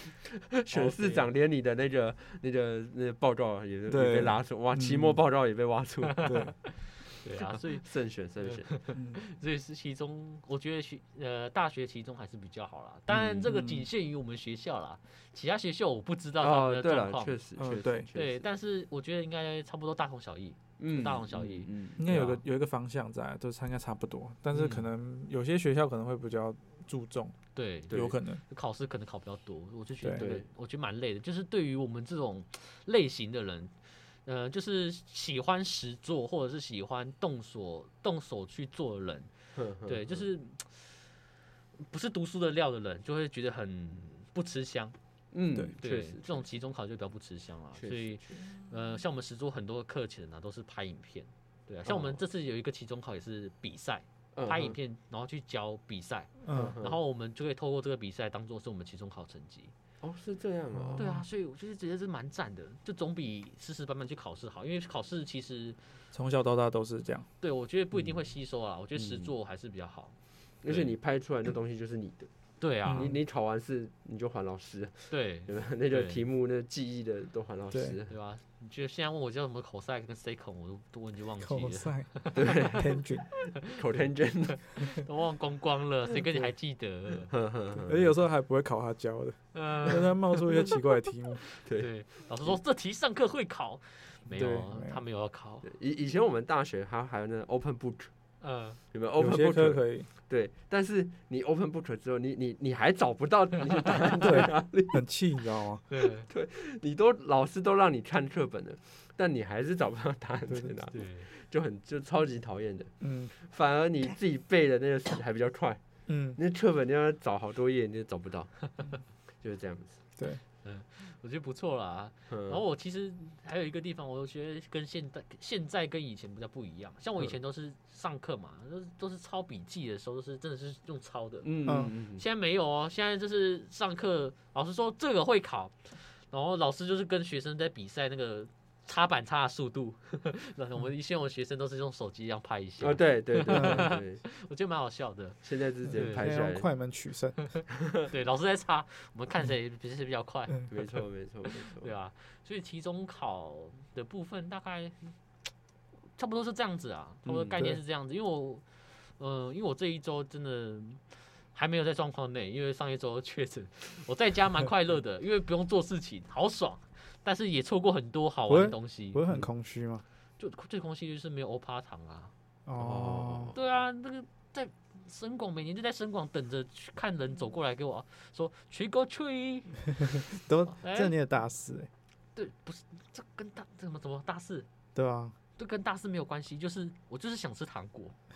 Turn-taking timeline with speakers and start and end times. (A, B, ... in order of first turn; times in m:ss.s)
0:00.6-0:06.4 A
0:00.7-0:01.3 B
0:03.9-0:05.2 C
0:06.1-0:07.9 B
0:06.2-0:06.5 C
0:07.4-0:08.8 A
0:08.4-0:17.4 B
0:08.9-0:09.2 C
0:13.1-0:13.4 A
0:13.1-0:13.9 C
0:16.4-0:18.4 A
0:17.6-0:18.1 C
0:18.1-0:22.4 B
0:20.8-0:22.0 A
0:22.0-0:27.4 C
0:24.5-0:24.8 B
0:27.5-0:39.3 B
0:27.9-0:28.1 A
0:27.9-0:28.4 C
0:30.2-0:30.5 A
0:39.5-0:40.2 A
0:39.8-0:41.1 B
0:41.9-0:44.9 B
0:45.3-0:46.5 A
0:45.8-0:59.7 B
0:47.8-0:48.4 A
0:51.8-0:52.2 A
0:54.3-0:54.8 A
0:56.4-0:56.8 C
0:56.5-0:57.0 A
1:00.0-1:01.2 A
1:00.7-1:01.2 C
1:01.0-1:05.8 B
1:06.1-1:07.3 C
1:07.4-1:10.9 B
1:08.9-1:09.3 A
1:10.6-1:12.3 A
1:12.6-1:13.1 B
1:12.8-1:18.1 A
1:12.8-1:13.2 C
1:15.1-1:16.2 B
1:17.7-1:18.0 C
1:18.1-1:22.6 B
1:21.4-1:23.3 C
1:22.3-1:22.9 A
1:23.6-1:24.7 A
1:24.7-1:27.3 B
1:27.3-1:28.1 A
1:27.8-1:31.4 C
1:29.5-1:30.4 B
1:31.6-1:35.7 B
1:31.6-1:32.6 A
1:34.3-1:35.0 C
1:35.6-1:38.1 A
1:38.4-1:38.8 B
1:38.9-1:45.0 A
1:39.2-1:40.1 C
1:44.2-1:45.8 C
1:45.9-1:46.3 B
1:46.3-1:55.8 A
1:50.9-1:51.3 B
1:53.0-1:53.3 C
1:56.1-1:56.4 C
1:56.3-1:58.8 A
1:59.4-2:00.0 A
2:00.2-2:00.4 C
2:00.6-2:26.3 B
2:02.3-2:02.6 A
2:11.4-2:12.2 A
2:11.6-2:11.9 C
2:22.8-2:24.2 A
2:23.5-2:23.9 C
2:25.4-2:26.7 A
2:26.0-2:27.4 C
2:28.1-2:30.7 B
2:30.7-2:31.9 A
2:31.8-2:35.2 B
2:36.2-2:49.2 B
2:37.2-2:37.7 A
2:48.5-2:50.0 C
2:50.4-2:52.3 B
2:52.6-2:53.5 C
2:52.8-2:53.6 A
2:53.5-3:01.1 B
3:00.3-3:01.9 C
3:02.3-3:04.7 B
3:04.9-3:05.4 C
3:05.6-3:08.2 B